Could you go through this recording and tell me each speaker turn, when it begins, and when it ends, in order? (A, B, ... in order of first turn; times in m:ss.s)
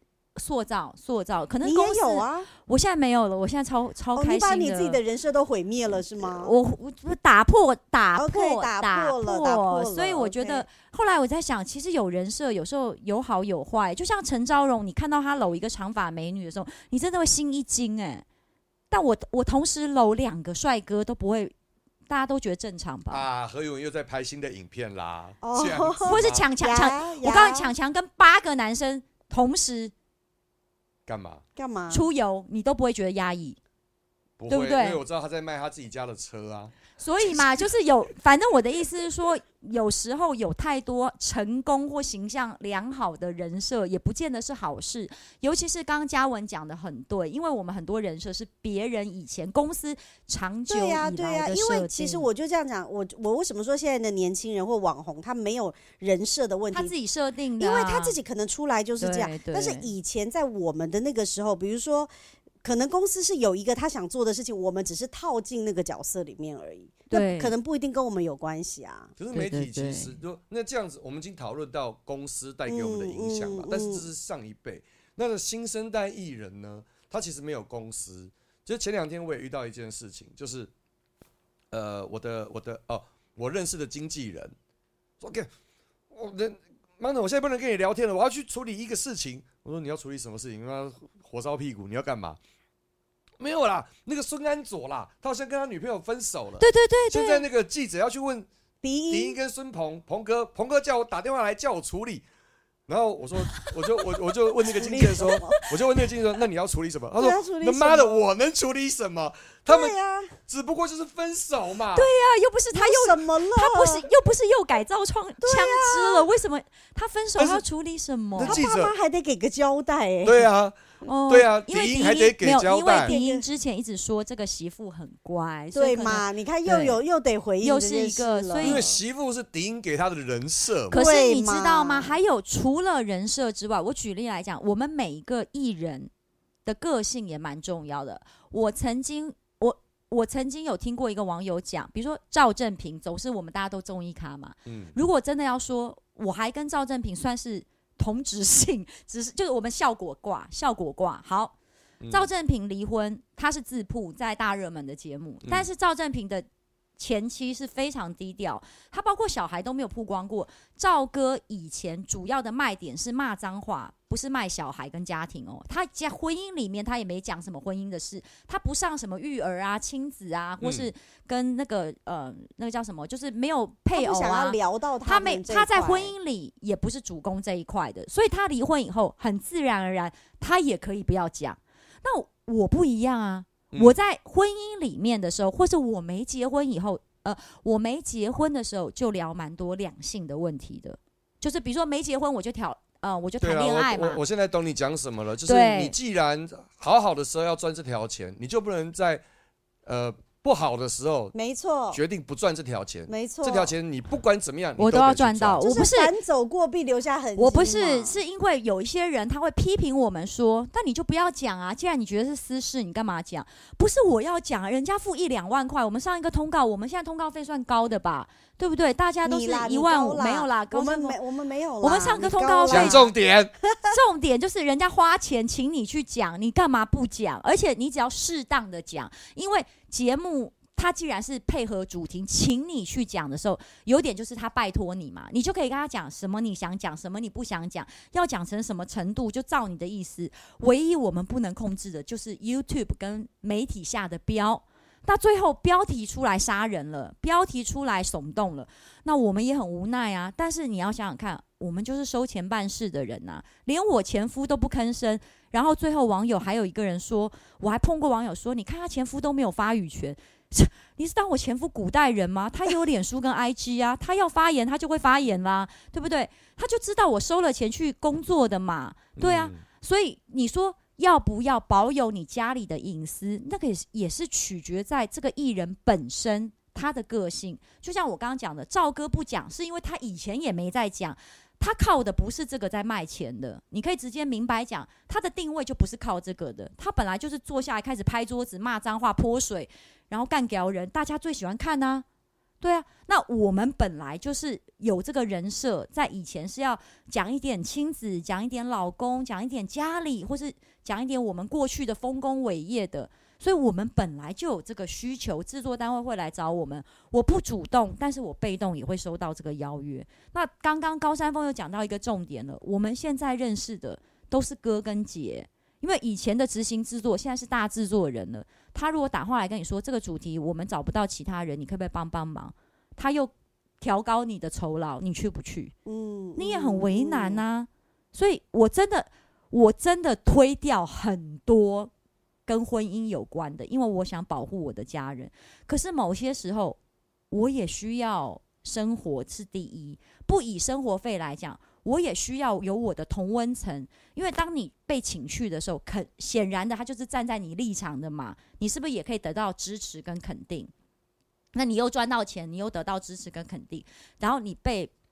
0:00.4-0:05.0 A
0:01.6-0:02.5 B
0:04.2-0:06.5 B
0:06.2-0:18.2 A
0:08.2-0:10.7 B
0:18.9-0:21.5 A
0:22.1-0:23.3 A
0:23.1-0:26.5 C
0:25.4-0:27.7 B
0:26.0-0:29.9 A
0:31.1-0:31.4 C
0:31.6-0:32.0 B
0:31.9-0:33.6 A
0:34.4-0:36.8 C
0:34.5-0:35.0 A
0:37.0-0:52.3 A
0:50.7-0:56.9 B
0:56.7-0:58.2 A
0:57.6-1:02.1 B
0:59.0-0:59.9 A
1:02.6-1:09.1 B
1:07.1-1:07.5 A
1:09.2-1:20.7 C
1:09.3-1:10.2 A
1:12.7-1:14.0 B
1:21.7-1:24.5 C
1:25.2-1:25.5 C
1:26.1-1:32.4 C
1:33.4-1:38.5 C
1:36.6-1:37.4 A
1:38.8-1:39.4 B
1:39.1-1:42.2 C
1:42.9-1:52.1 C
1:44.7-1:45.6 B
1:45.2-1:45.6 A
1:47.2-1:48.2 B
1:49.7-1:50.3 B
1:51.9-1:58.6 A
1:52.7-1:54.0 B
1:55.4-1:56.3 B
1:57.4-1:57.6 C
1:58.4-1:58.9 C
1:58.4-2:00.5 B
2:00.2-2:00.8 C
2:01.0-2:07.0 A
2:01.3-2:03.1 C
2:03.0-2:03.4 B
2:05.7-2:09.0 B
2:07.6-2:08.8 A
2:08.6-2:11.0 C
2:10.9-2:16.1 A
2:10.9-2:12.1 B
2:16.6-2:31.5 A
2:24.7-2:25.0 C
2:32.0-2:32.3 C
2:32.1-2:36.5 A
2:37.0-3:14.2 A
2:50.6-2:50.9 C
2:53.9-2:56.1 B
3:13.4-3:19.2 C
3:15.4-3:16.0 A
3:19.9-3:21.4 C
3:21.3-3:22.0 B
3:21.9-3:25.6 C
3:23.1-3:23.7 B
3:24.8-3:26.1 A
3:25.6-3:28.2 B
3:27.4-3:41.2 A
3:39.2-3:43.1 B
3:41.8-3:43.1 A
3:42.7-3:43.5 C
3:43.9-4:52.0 A
4:29.2-4:29.6 C
4:52.6-5:25.7 A
5:25.8-5:27.4 B
5:26.4-5:31.9 A
5:32.5-5:36.8 A
5:37.3-5:50.7 A
5:51.5-5:54.9 A